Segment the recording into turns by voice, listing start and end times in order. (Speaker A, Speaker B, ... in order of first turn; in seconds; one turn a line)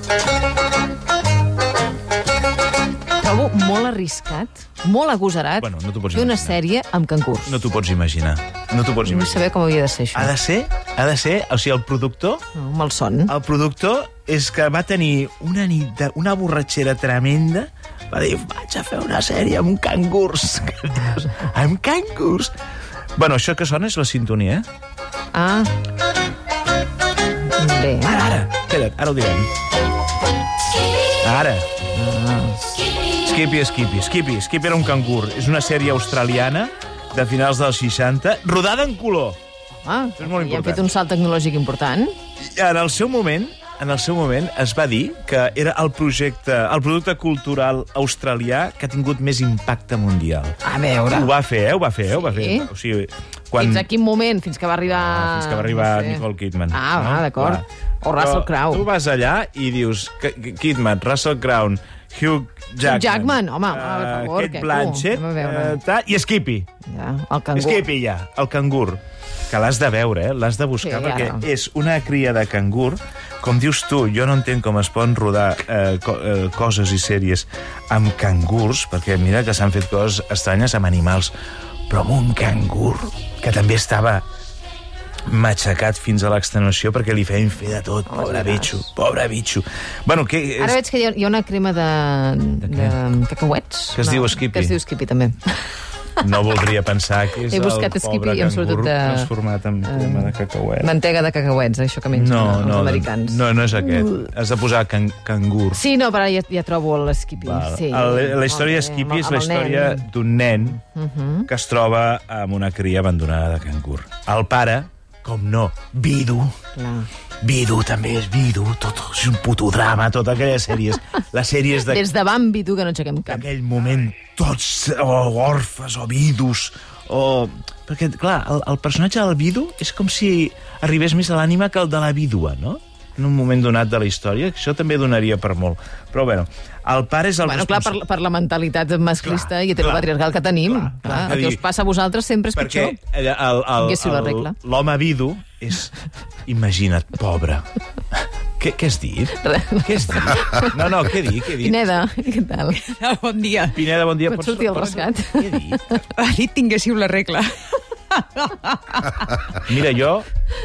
Speaker A: 3.2-7.6
Speaker B: 5.6-6.6
Speaker B: 7.5-9.5
Speaker A: 9.0-10.3
Speaker B: 10.1-12.4
Speaker A: 12.5-13.3
Speaker B: 13.3-22.5
Speaker B: 23.2-24.7
Speaker A: 25.3-25.7
Speaker A: 27.6-28.2
Speaker B: 28.0-29.5
Speaker B: 31.2-31.7
Speaker A: 31.9-32.6
Speaker B: 33.2-39.4
Speaker A: 39.8-42.1
Speaker B: 40.2-40.9
Speaker B: 42.4-53.9
Speaker A: 50.6-51.3
Speaker A: 52.1-52.7
Speaker A: 53.6-58.9
Speaker B: 54.9-66.7
Speaker A: 62.8-65.8
Speaker A: 66.9-67.9
Speaker B: 67.5-81.3
Speaker A: 70.8-71.5
Speaker B: 81.9-84.2
Speaker B: 85.3-90.8
Speaker A: 88.1-88.9
Speaker A: 90.6-95.7
Speaker B: 92.6-93.0
Speaker B: 93.9-94.8
Speaker B: 96.2-100.9
Speaker A: 97.5-99.3
Speaker A: 99.8-104.3
Speaker B: 102.1-105.8
Speaker A: 105.7-110.1
Speaker B: 107.4-110.8
Speaker A: 110.6-111.5
Speaker B: 111.5-116.5
Speaker A: 116.7-117.1
Speaker B: 117.4-122.1
Speaker A: 121.8-123.5
Speaker B: 123.3-138.0
Speaker A: 137.4-143.0
Speaker B: 139.2-140.1
Speaker B: 140.7-141.6
Speaker B: 142.6-151.9
Speaker A: 143.7-144.5
Speaker A: 149.3-152.9
Speaker C: 152.8-153.8
Speaker B: 153.7-156.0
Speaker A: 154.2-156.1
Speaker C: 156.1-159.5
Speaker B: 159.6-160.3